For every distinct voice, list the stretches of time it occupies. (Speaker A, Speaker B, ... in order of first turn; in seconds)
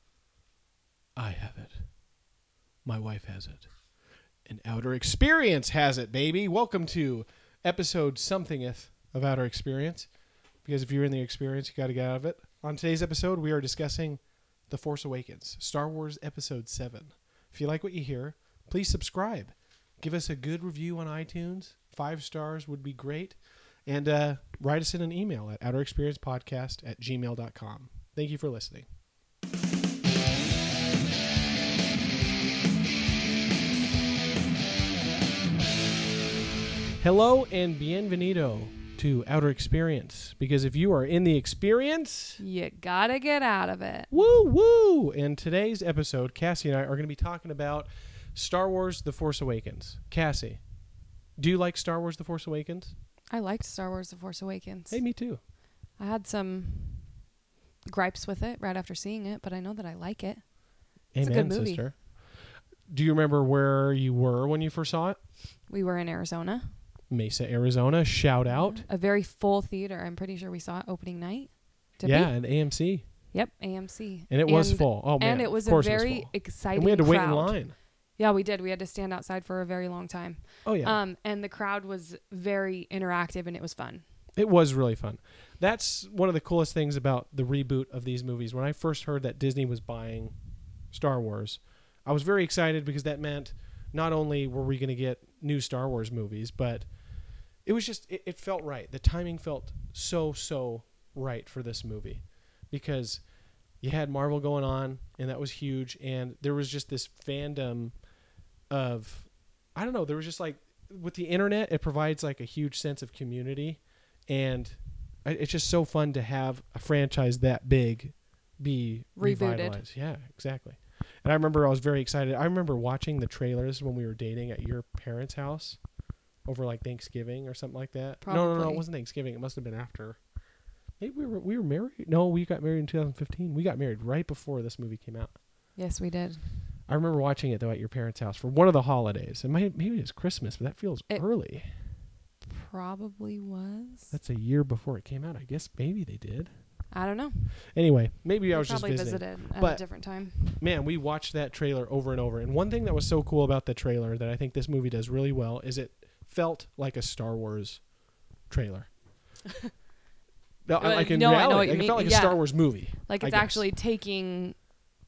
Speaker A: 1.1-1.9, 2.8-3.7, 4.5-10.1, 10.6-28.9, 37.0-42.4, 44.1-50.6, 51.4-52.9, 54.9-55.4, 61.1-65.2, 67.1-68.8, 72.0-73.0, 74.3-77.7, 80.6-81.0, 84.4-90.3, 90.9-96.9, 97.6-103.2, 103.8-108.0, 108.7-125.8, 126.4-130.2, 131.0-135.4, 136.9-141.7, 144.1-146.5, 147.7-157.9, 158.5-158.9, 160.7-163.7
Speaker B: 42.4-44.1, 53.3-55.0, 56.0-57.1, 57.9-60.6, 61.2-61.9, 65.7-66.7, 68.5-72.3, 73.3-84.0, 119.2-119.8, 128.2-128.8, 135.8-136.4, 142.5-144.1, 146.9-147.5, 148.5-150.6, 160.8-164.6